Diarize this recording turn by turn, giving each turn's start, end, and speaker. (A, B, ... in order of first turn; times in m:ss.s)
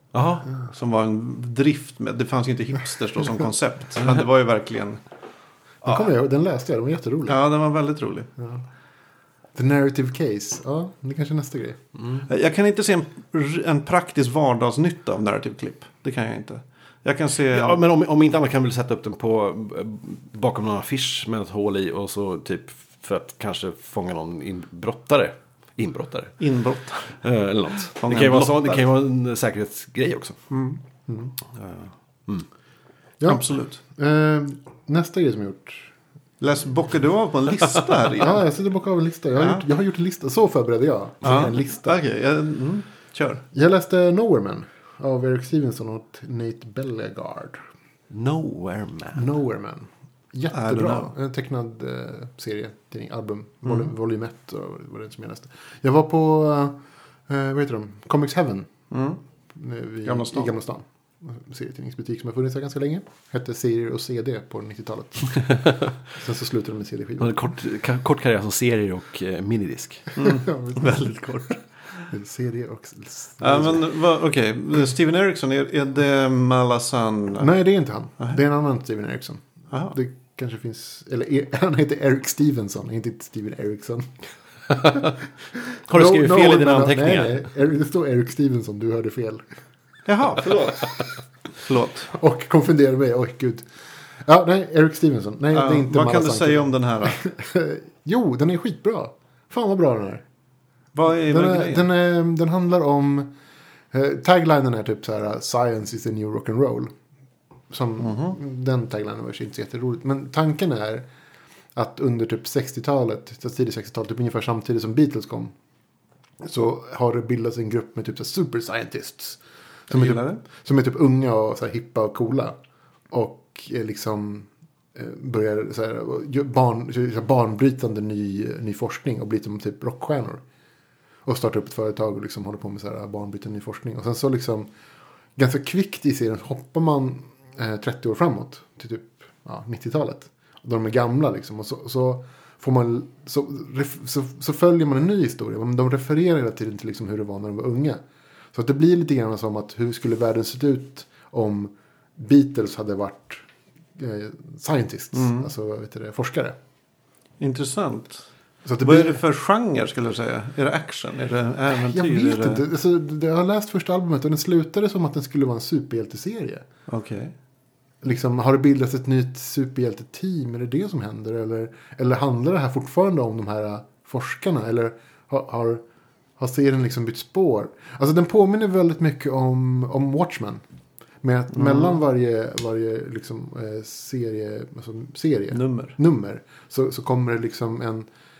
0:00.1-0:00.5 A
0:00.6-0:05.0 B
0:05.8-0:07.4 C
0:07.3-0:08.3 B
0:08.4-0:08.6 C
0:09.5-0:11.8 C
0:12.2-0:17.8 B
0:17.5-0:26.4 A
0:26.4-0:27.2 B
0:27.2-0:30.4 A
0:28.0-0:28.9 B
0:30.5-0:30.8 B
0:31.1-0:31.3 C
0:33.2-0:33.8 B
0:33.9-0:35.9 C
0:36.4-0:38.4 B
0:38.2-0:42.0 C
0:39.4-0:39.6 B
0:41.2-0:43.4 B
0:43.5-0:47.6 C
0:48.1-0:49.3 A
0:49.1-0:58.7 C
0:50.5-0:51.1 B
0:58.9-0:59.2 B
0:59.5-1:05.6 C
1:00.0-1:00.5 B
1:05.5-1:05.8 A
1:06.1-1:07.4 C
1:07.2-1:10.1 A
1:10.2-1:11.6 B
1:10.2-1:11.0 C
1:12.1-1:13.8 C
1:13.4-1:17.5 B
1:17.4-1:24.1 C
1:19.7-1:20.0 B
1:24.8-1:25.1 A
1:25.8-1:29.4 C
1:25.9-1:27.4 A
1:30.0-1:30.9 B
1:31.6-1:32.1 B
1:32.1-1:33.6 C
1:34.2-1:40.2 C
1:35.5-1:37.2 B
1:40.9-1:41.9 B
1:41.3-1:43.3 C
1:43.9-1:46.9 C
1:47.7-1:51.1 C
1:48.0-1:48.4 B
1:51.7-1:55.5 C
1:56.4-2:02.5 C
1:59.9-2:00.4 B
2:03.1-2:10.4 C
2:11.2-2:14.7 C
2:15.4-2:28.0 C
2:28.5-2:36.6 C
2:35.1-2:35.5 B
2:37.4-2:38.2 B
2:38.6-2:39.2 C
2:38.8-2:42.6 B
2:41.7-2:46.6 C
2:46.9-2:47.3 B
2:48.0-2:55.8 C
2:56.4-3:00.6 C
3:01.2-3:08.1 C
3:01.5-3:01.9 B
3:05.5-3:06.0 B